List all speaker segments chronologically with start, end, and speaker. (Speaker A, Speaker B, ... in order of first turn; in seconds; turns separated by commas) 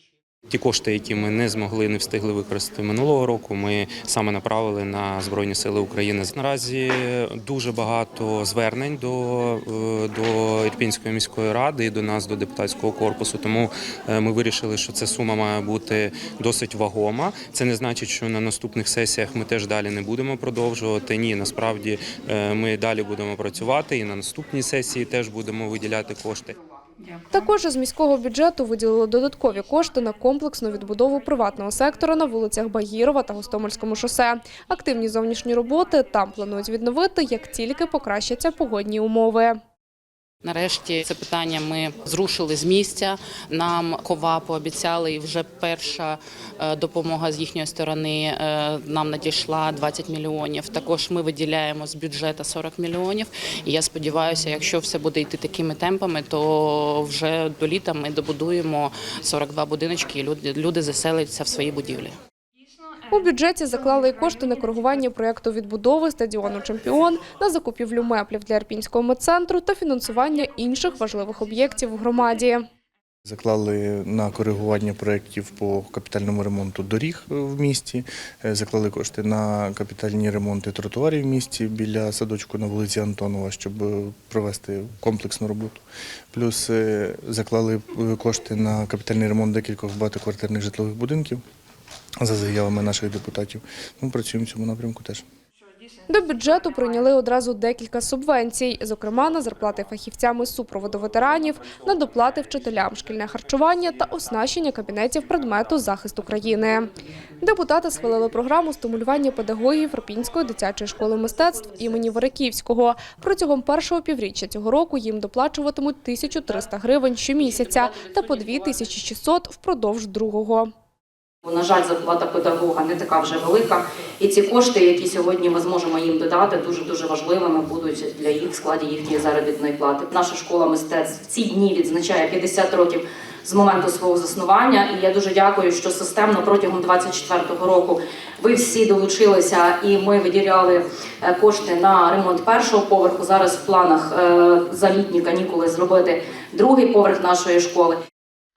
Speaker A: 0.5-26.6, Speaker B: 27.3-39.6, Speaker C: 40.4-62.1, Speaker B: 63.1-72.6, Speaker D: 73.2-85.8, Speaker D: 86.3-91.4, Speaker D: 92.2-95.2, Speaker B: 96.1-106.9, Speaker B: 107.4-120.7, Speaker E: 117.3-118.8, Speaker E: 121.4-148.0